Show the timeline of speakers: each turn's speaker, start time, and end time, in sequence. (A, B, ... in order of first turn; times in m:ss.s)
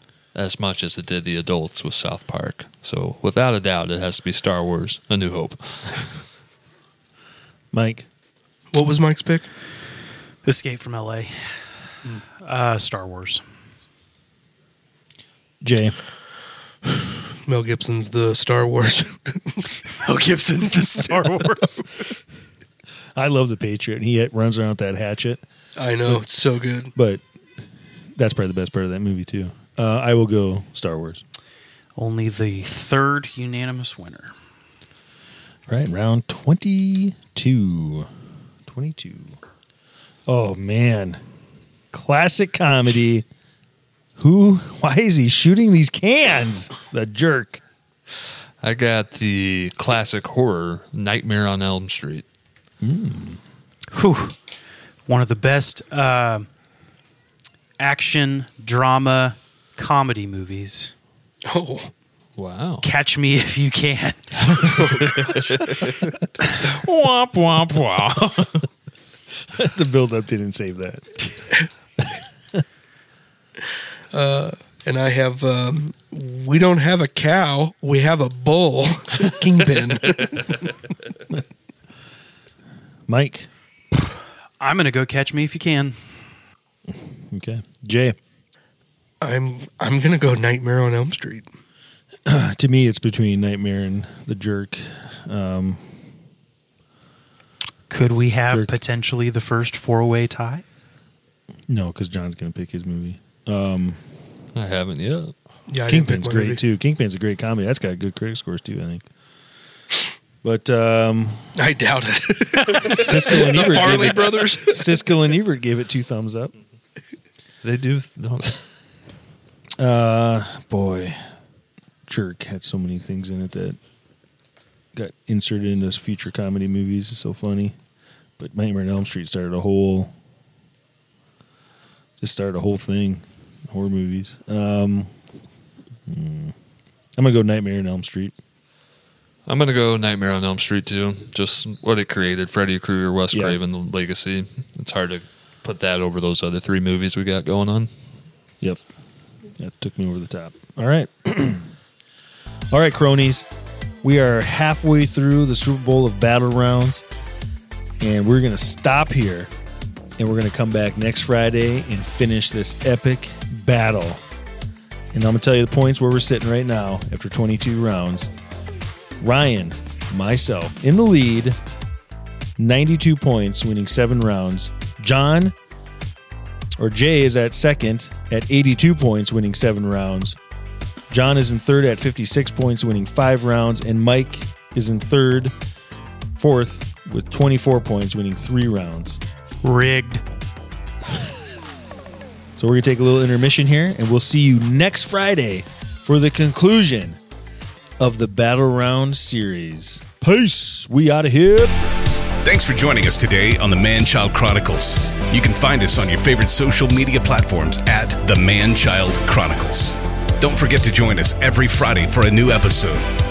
0:00.3-0:06.2 A
0:07.7-0:08.0 B
0:08.7-0:09.5 C
0:10.4-0:11.4 D
0:12.4-0:13.4 D
0:15.6-0:16.0 B
0:16.9-0:19.6 C
0:19.9-0:21.9 D
0:23.1-0:25.4 B
0:25.8-0:26.9 C
0:26.9-0:27.2 B
0:28.2-0:31.2 B
0:32.0-0:34.3 D
0:35.7-0:38.1 B
0:38.7-0:39.4 B
0:40.3-0:41.2 B
0:41.9-0:43.2 B
0:44.2-0:47.6 B
0:48.6-0:52.2 A
0:52.8-0:53.4 B
0:53.9-0:54.4 D
0:55.1-0:56.5 D
0:57.8-1:00.9 D
1:01.4-1:01.9 C
1:02.4-1:02.9 A
1:02.8-1:04.8 D
1:04.6-1:08.7 A
1:09.5-1:11.2 B
1:14.1-1:20.7 C
1:23.1-1:23.5 B
1:24.6-1:26.0 D
1:26.9-1:28.2 B
1:29.2-1:31.4 C
1:32.2-1:35.9 B
1:37.9-1:40.6 D
1:38.5-1:38.7 B
1:41.7-1:44.0 B
1:44.5-1:45.3 A
1:45.7-1:46.6 C
1:45.9-1:49.0 B
1:50.4-1:51.5 B
1:51.5-1:54.9 C
1:52.8-1:56.5 B
1:57.6-1:58.7 A
1:59.8-2:01.2 B
2:02.1-2:03.8 B
2:04.9-2:07.7 B
2:08.4-2:10.1 B
2:12.2-2:15.1 B
2:16.0-2:16.5 B
2:17.2-2:18.3 B
2:19.5-2:27.9 A
2:23.3-2:23.6 B
2:29.6-2:31.7 B
2:32.7-2:33.5 B
2:34.0-2:37.0 B
2:38.0-2:39.5 B
2:40.2-2:44.2 B
2:45.1-2:48.3 B
2:49.2-2:51.6 B
2:52.6-2:55.5 B
2:56.8-3:00.4 B
3:01.1-3:05.5 B
3:06.4-3:09.2 B
3:09.6-3:10.2 D
3:12.6-3:17.2 B
3:18.0-3:21.7 B
3:22.4-3:33.1 E